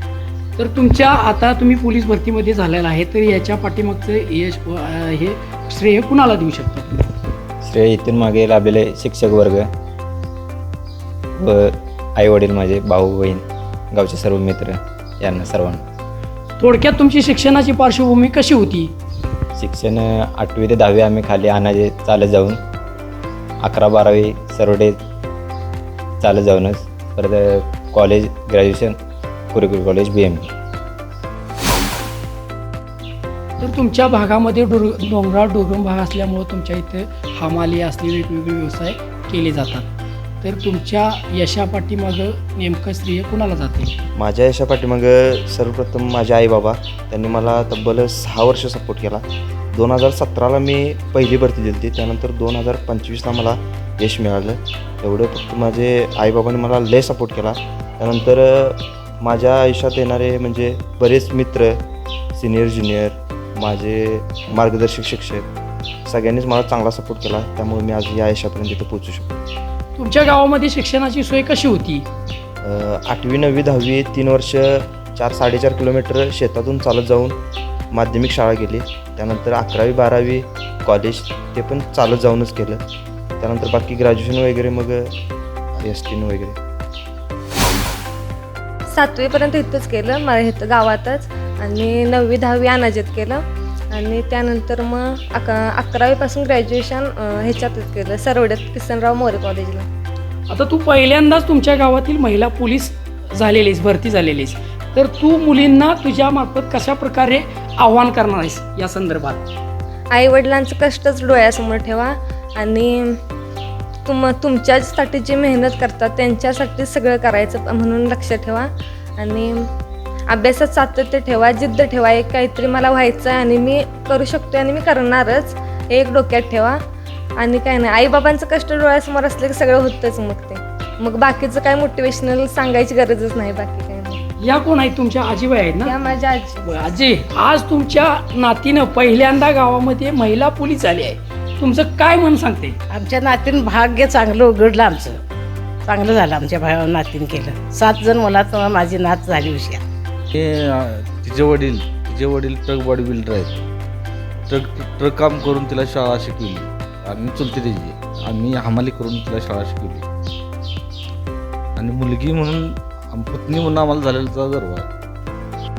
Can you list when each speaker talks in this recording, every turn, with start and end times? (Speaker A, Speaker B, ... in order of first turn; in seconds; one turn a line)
Speaker A: 0.6-7.1
Speaker B: 7.6-9.7
Speaker B: 11.4-15.8
Speaker A: 16.6-18.9
Speaker B: 19.6-22.6
Speaker B: 23.6-25.0
Speaker B: 26.2-29.0
Speaker B: 29.5-30.5
Speaker A: 33.6-39.9
Speaker A: 40.4-43.9
Speaker C: 44.2-61.8
Speaker C: 62.4-65.5
Speaker C: 66.1-69.4
Speaker A: 70.0-72.1
Speaker C: 72.6-77.4
Speaker C: 77.9-82.8
Speaker C: 83.4-85.1
Speaker C: 85.8-86.6
Speaker D: 88.9-93.4
Speaker D: 93.9-99.9
Speaker A: 100.5-109.5
Speaker D: 110.1-113.2
Speaker D: 114.1-119.6
Speaker D: 120.3-126.8
Speaker D: 127.4-134.2
Speaker A: 134.4-135.9
Speaker D: 135.8-136.8
Speaker A: 136.7-142.8
Speaker E: 142.9-145.2
Speaker E: 145.8-149.8
Speaker F: 150.3-153.6
Speaker F: 154.5-160.1
Speaker F: 161.8-164.9